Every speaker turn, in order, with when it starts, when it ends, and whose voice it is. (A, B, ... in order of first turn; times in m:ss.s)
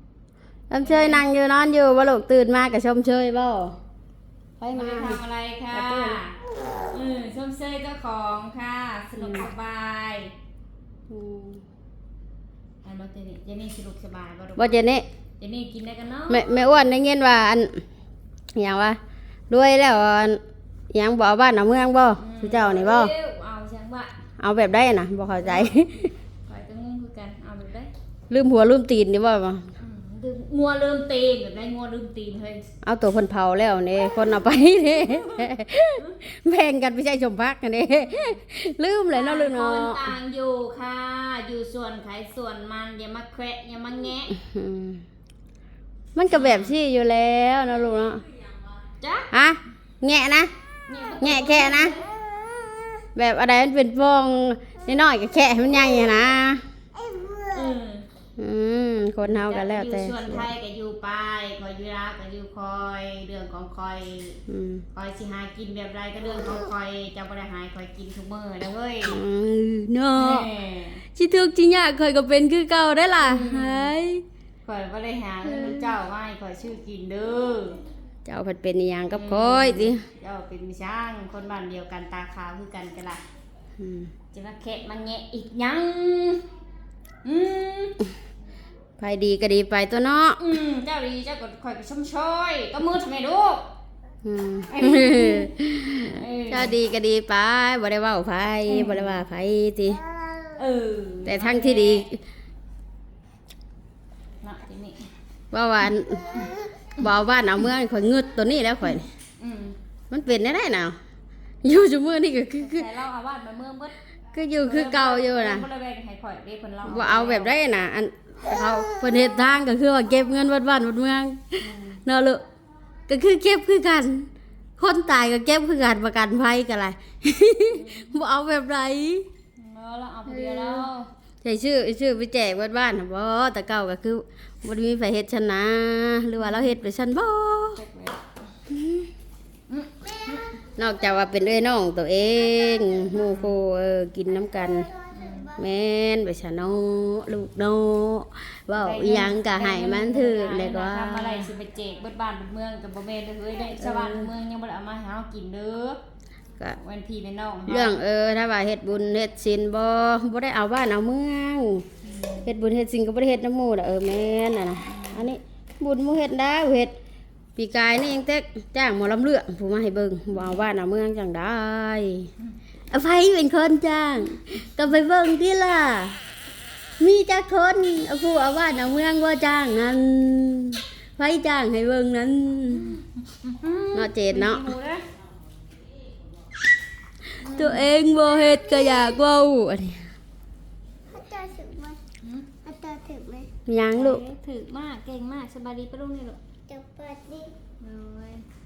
0:00.7-0:03.8 A
0:00.8-0:01.2 B
0:04.6-0:05.2 A
0:04.7-0:06.3 B
0:05.7-0:06.2 A
0:06.9-0:10.3 B
0:09.2-0:09.5 A
0:11.1-0:11.6 A
0:12.8-0:14.8 B
0:14.6-0:15.0 A
0:15.4-0:16.5 B
0:16.3-0:17.8 A
0:18.5-0:19.0 A
0:19.5-0:20.4 A
0:20.9-0:23.1 A
0:22.2-0:24.1 B
0:24.4-0:26.1 A
0:25.4-0:25.9 B
0:26.5-0:27.9 B
0:28.3-0:29.7 A
0:29.8-0:32.7 B
0:32.8-0:40.1 A
0:38.0-0:38.4 B
0:39.1-0:44.4 B
0:44.3-0:45.0 A
0:46.1-0:48.2 A
0:46.3-0:46.7 B
0:49.0-0:49.3 B
0:49.3-0:50.5 A
0:50.8-0:52.1 B
0:51.1-0:52.0 A
0:52.3-0:52.7 C
0:53.1-0:56.6 A
0:57.0-0:57.4 C
0:57.5-0:58.0 B
0:58.4-1:00.5 A
0:59.2-1:04.4 B
1:04.5-1:04.8 A
1:04.9-1:09.2 B
1:09.1-1:10.5 A
1:10.1-1:11.0 B
1:11.1-1:14.2 A
1:13.2-1:13.9 B
1:14.6-1:17.8 B
1:15.4-1:16.0 A
1:18.2-1:20.0 A
1:19.1-1:23.2 B
1:23.8-1:24.1 A
1:24.3-1:26.4 B
1:27.2-1:28.0 B
1:29.0-1:30.4 A
1:30.4-1:33.6 B
1:34.2-1:40.0 A
1:34.7-1:36.8 B
1:38.7-1:39.2 B
1:40.6-1:42.0 B
1:41.2-1:42.2 A
1:44.4-1:45.1 B
1:45.5-1:46.4 A
1:47.0-1:49.1 A
1:49.4-1:49.8 B
1:50.1-1:51.0 A
1:51.6-1:52.9 A
1:52.6-1:53.9 B
1:54.3-1:55.7 A
1:54.6-1:57.5 B
1:56.8-2:02.4 A
2:01.6-2:02.0 B
2:03.1-2:09.3 A
2:07.7-2:08.1 B
2:09.6-2:11.1 B
2:10.3-2:10.9 A
2:11.4-2:17.8 A
2:16.4-2:16.7 B
2:17.8-2:18.2 B
2:18.7-2:19.1 A
2:19.7-2:20.6 B
2:20.8-2:24.9 A
2:25.1-2:25.5 B
2:25.5-2:31.5 A
2:28.8-2:36.0 B
2:33.8-2:34.3 A
2:36.7-2:38.0 B
2:37.7-2:41.8 A
2:42.0-2:42.4 B
2:42.4-2:46.9 A
2:44.8-2:45.2 B
2:47.6-2:52.3 A
2:52.9-2:56.2 A
2:57.0-3:03.0 A
3:02.9-3:05.0 B
3:03.9-3:04.7 A
3:07.4-3:07.9 B
3:07.4-3:10.1 A
3:08.4-3:09.0 C
3:11.1-3:12.0 C
3:12.6-3:13.5 C
3:13.6-3:14.2 A
3:13.9-3:16.4 B
3:16.7-3:17.5 C
3:17.8-3:18.4 B